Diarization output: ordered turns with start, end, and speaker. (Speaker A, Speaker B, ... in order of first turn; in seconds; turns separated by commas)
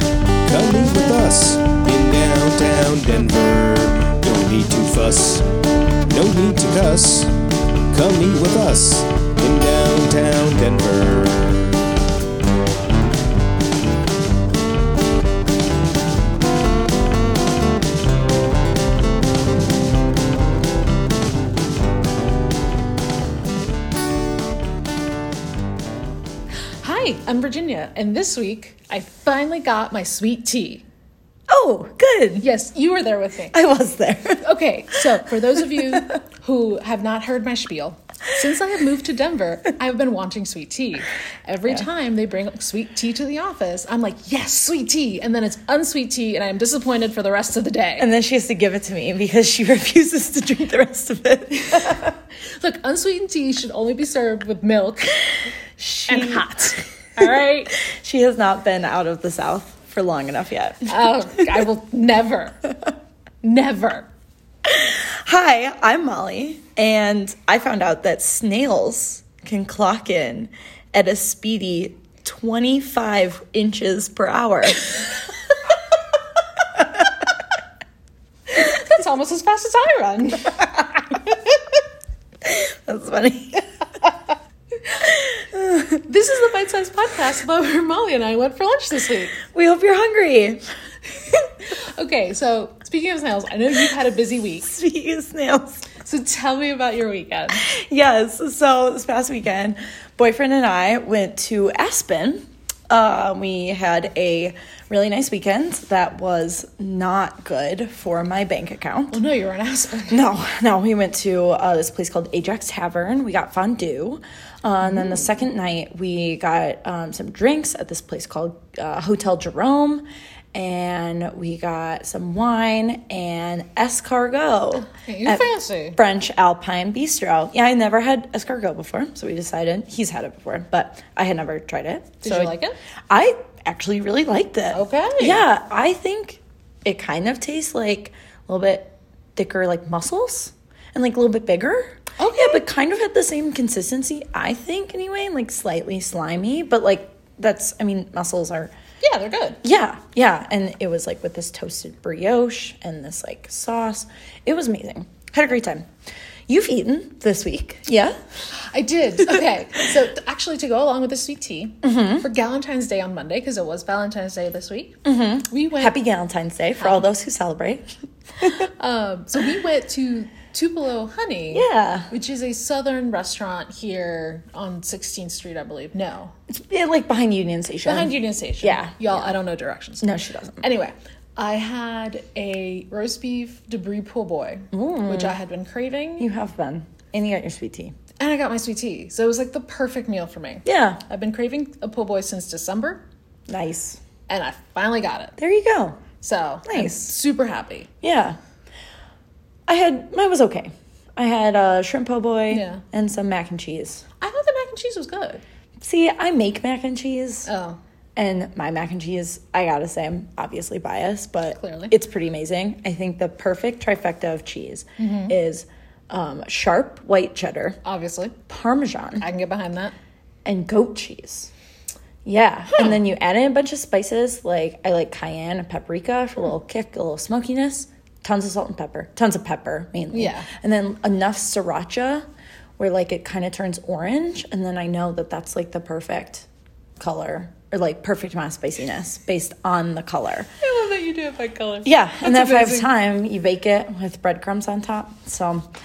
Speaker A: 0.4-5.4, Speaker A: 6.1-7.3, Speaker A: 7.9-11.6, Speaker B: 26.8-30.9, Speaker C: 31.5-32.5, Speaker B: 32.4-33.6, Speaker C: 33.5-35.0, Speaker B: 34.4-48.1, Speaker C: 35.7-36.1, Speaker C: 48.0-52.1, Speaker B: 51.8-55.4, Speaker C: 55.8-56.6, Speaker B: 56.1-57.8, Speaker C: 57.8-61.6, Speaker B: 60.9-62.6, Speaker B: 63.4-64.1, Speaker C: 64.6-74.9, Speaker B: 78.6-81.5, Speaker C: 82.4-83.6, Speaker C: 85.0-86.0, Speaker B: 86.1-89.4, Speaker C: 89.4-90.6, Speaker B: 91.7-94.7, Speaker C: 94.6-95.8, Speaker B: 96.0-97.6, Speaker C: 97.5-109.2, Speaker B: 109.1-110.2, Speaker C: 110.1-132.6, Speaker B: 124.9-126.0, Speaker B: 132.2-132.7, Speaker C: 133.1-148.7, Speaker B: 134.7-135.4, Speaker B: 142.2-142.6, Speaker B: 149.0-149.6, Speaker C: 149.6-155.8, Speaker C: 156.5-158.1, Speaker B: 158.7-164.9, Speaker C: 161.8-162.2, Speaker C: 165.0-168.7, Speaker B: 165.5-166.0, Speaker B: 166.8-167.1, Speaker B: 168.8-176.3, Speaker C: 171.5-172.1, Speaker C: 176.6-179.3, Speaker B: 177.8-180.1, Speaker C: 180.0-180.6, Speaker B: 180.6-186.3, Speaker C: 184.7-185.4, Speaker C: 186.2-187.9, Speaker B: 188.2-193.0, Speaker C: 190.6-191.0, Speaker C: 193.5-194.0, Speaker B: 194.3-195.3, Speaker C: 195.4-196.0, Speaker B: 196.2-197.9, Speaker C: 196.7-197.1, Speaker C: 198.0-198.4, Speaker C: 199.7-204.0, Speaker B: 202.5-202.8, Speaker B: 204.2-205.4, Speaker C: 205.8-207.5, Speaker B: 207.4-207.8, Speaker C: 208.2-217.8, Speaker B: 211.5-211.9, Speaker B: 215.0-215.3, Speaker B: 217.8-218.4, Speaker C: 218.5-219.2, Speaker B: 219.2-219.9, Speaker C: 220.4-221.5, Speaker C: 222.2-232.2, Speaker B: 230.1-230.5, Speaker C: 232.8-236.4, Speaker C: 237.0-240.5, Speaker B: 240.6-242.9, Speaker C: 241.8-245.7